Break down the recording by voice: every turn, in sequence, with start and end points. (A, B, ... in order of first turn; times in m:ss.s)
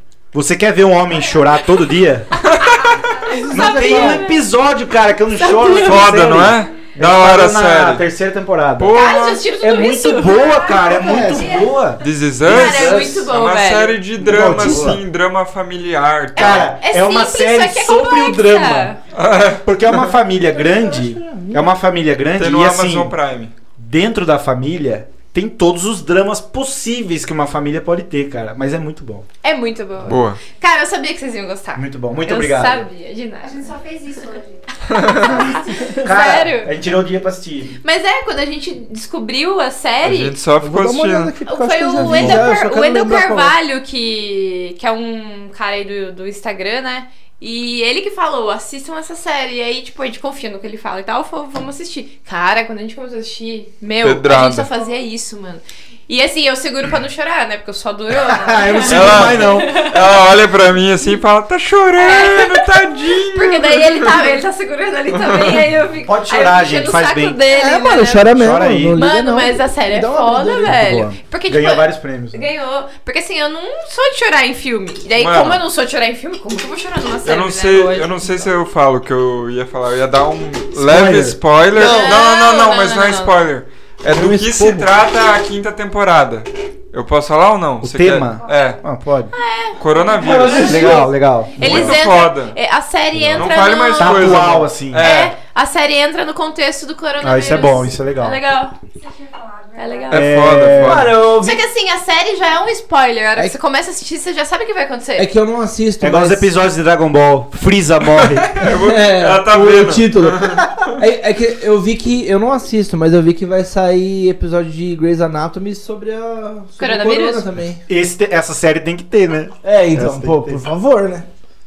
0:00.3-0:02.4 A
0:02.4-0:04.4 B
0:02.4-0:03.1 C
0:03.3-0:04.2 D
0:03.5-0:09.0 A
0:05.3-0:06.2 B
0:05.7-0:08.0 C
0:08.8-0:09.5 C
0:08.9-0:11.7 B
0:09.6-0:13.3 A
0:10.8-0:11.6 D
0:12.0-0:16.7 C
0:12.5-0:14.0 B
0:14.2-0:15.0 A
0:14.2-0:15.0 D
0:16.4-0:19.0 A
0:16.4-0:19.0 B
0:19.1-0:19.6 C
0:19.6-0:23.2 A
0:20.5-0:21.7 D
0:22.4-0:23.5 C
0:23.8-0:29.3 A
0:29.4-0:33.7 B
0:30.1-0:30.4 C
0:31.8-0:32.9 A
0:33.4-0:34.6 E
0:34.9-0:35.4 C
0:34.9-0:36.8 B
0:35.7-0:36.1 D
0:36.0-0:37.8 A
0:37.8-0:40.4 B
0:40.0-0:41.4 C
0:40.6-0:43.6 D
0:41.5-1:00.1 B
0:42.0-0:42.4 C
0:54.0-0:54.7 C
0:58.2-0:59.9 A
0:58.9-1:04.4 C
1:02.0-1:08.4 B
1:05.2-1:05.6 C
1:06.0-1:07.4 A
1:07.5-1:10.8 D
1:08.3-1:09.0 A
1:09.0-1:18.5 B
1:10.7-1:12.4 A
1:15.2-1:15.6 C
1:17.2-1:28.8 C
1:20.8-1:21.4 A
1:21.7-1:22.2 D
1:21.8-1:23.4 B
1:24.1-1:24.9 D
1:27.8-1:29.3 A
1:28.4-1:28.8 E
1:29.3-1:38.8 B
1:29.8-1:31.0 C
1:30.2-1:31.1 D
1:30.6-1:32.0 A
1:31.6-1:32.6 C
1:33.1-1:35.1 A
1:33.3-1:35.3 C
1:37.2-1:38.4 A
1:39.0-1:40.3 E
1:39.8-1:40.3 B
1:40.1-1:41.2 C
1:40.1-1:41.3 A
1:40.7-1:41.6 D
1:41.4-1:45.3 B
1:45.2-1:46.5 D
1:46.0-1:48.6 A
1:48.2-1:50.9 C
1:48.6-1:57.8 D
1:56.8-1:57.4 B
1:57.9-2:00.7 A
1:59.6-2:01.3 D